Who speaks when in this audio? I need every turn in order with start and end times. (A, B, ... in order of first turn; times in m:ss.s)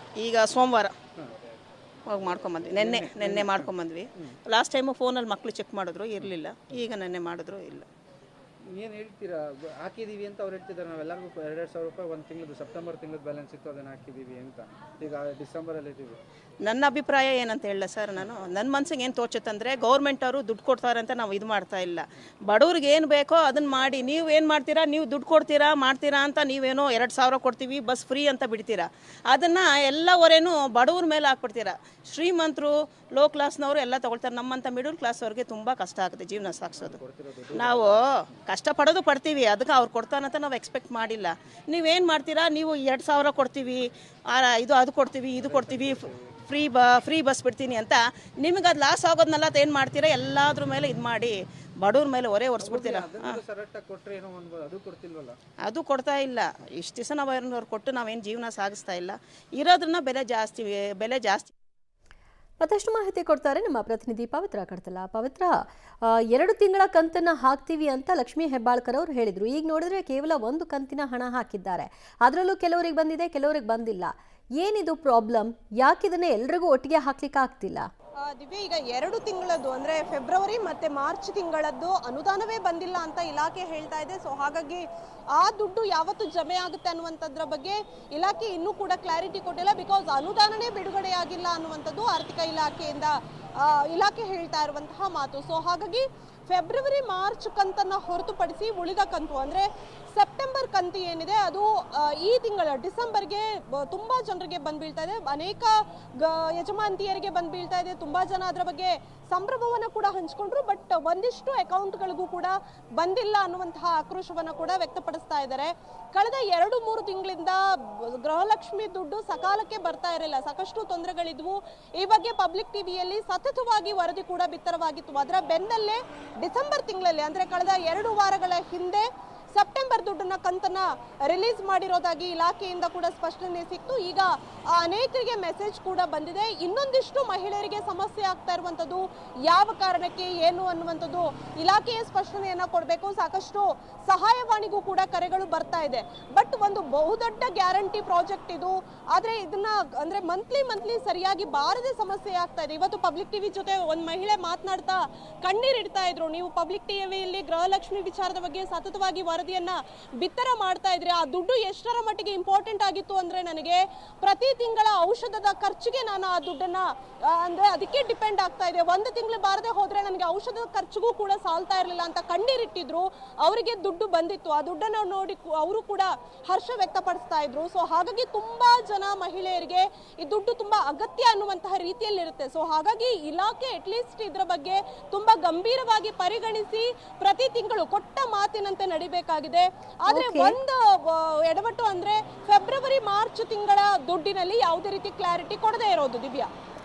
0:00.2-0:01.0 A
0:02.1-0:07.9 A
0:02.7-0:04.4 B
0:08.6-0:16.2 B
0:16.6-0:37.0 A
0:36.8-0:38.3 B
0:37.5-0:53.4 A
0:45.4-0:46.3 B
0:52.6-0:55.4 B
0:55.6-1:01.5 A
1:02.6-1:17.9 C
1:18.2-3:16.5 D
3:10.1-3:10.6 C